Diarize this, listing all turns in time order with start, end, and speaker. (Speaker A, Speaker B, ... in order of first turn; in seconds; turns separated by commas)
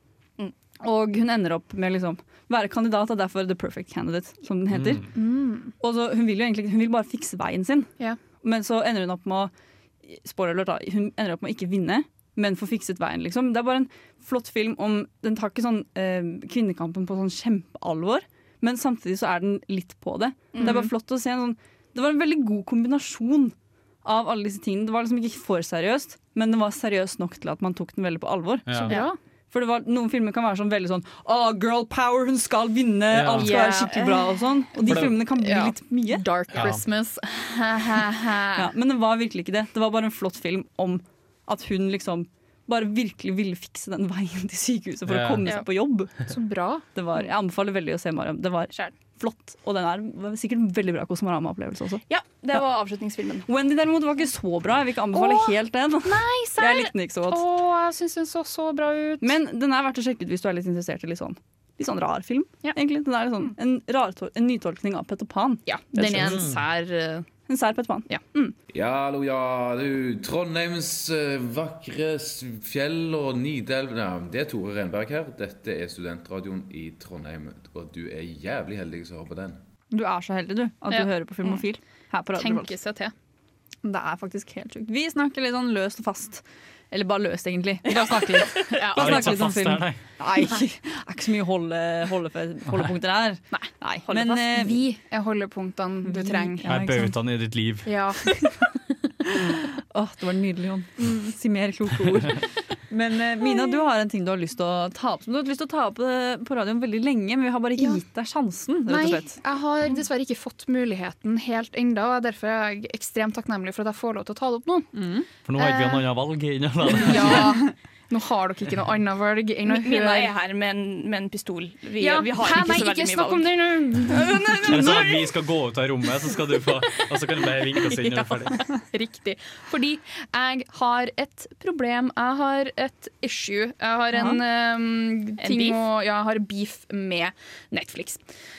Speaker A: 0.8-5.1, Speaker B: 4.7-5.1, Speaker C: 5.1-5.7, Speaker A: 5.8-9.5, Speaker A: 10.1-29.0, Speaker C: 20.6-20.9, Speaker B: 28.7-29.0, Speaker C: 28.9-29.1, Speaker A: 29.5-36.2, Speaker B: 33.1-33.5, Speaker C: 33.4-34.3, Speaker B: 34.9-35.1, Speaker C: 34.9-38.7, Speaker B: 36.5-36.8, Speaker A: 38.5-46.2, Speaker B: 45.1-45.5, Speaker C: 46.3-46.8, Speaker A: 46.9-52.0, Speaker D: 52.1-53.5, Speaker A: 53.5-57.4, Speaker C: 55.1-59.4, Speaker A: 59.2-66.4, Speaker C: 65.7-67.3, Speaker B: 66.2-66.6, Speaker A: 67.5-68.1, Speaker C: 68.1-68.5, Speaker E: 68.7-79.6, Speaker A: 79.9-82.7, Speaker C: 82.4-83.1, Speaker A: 83.8-94.8, Speaker C: 88.7-89.4, Speaker B: 88.9-90.0, Speaker C: 93.5-96.6, Speaker A: 96.0-97.2, Speaker B: 96.6-97.9, Speaker C: 97.9-98.2, Speaker A: 99.2-109.4, Speaker C: 103.4-103.7, Speaker C: 108.9-114.9, Speaker A: 114.9-115.3, Speaker B: 115.5-117.6, Speaker C: 115.6-116.1, Speaker C: 116.8-120.3, Speaker D: 119.7-125.2, Speaker C: 122.0-125.1, Speaker B: 124.6-128.6, Speaker C: 128.7-138.2, Speaker A: 134.1-134.4, Speaker D: 135.4-135.8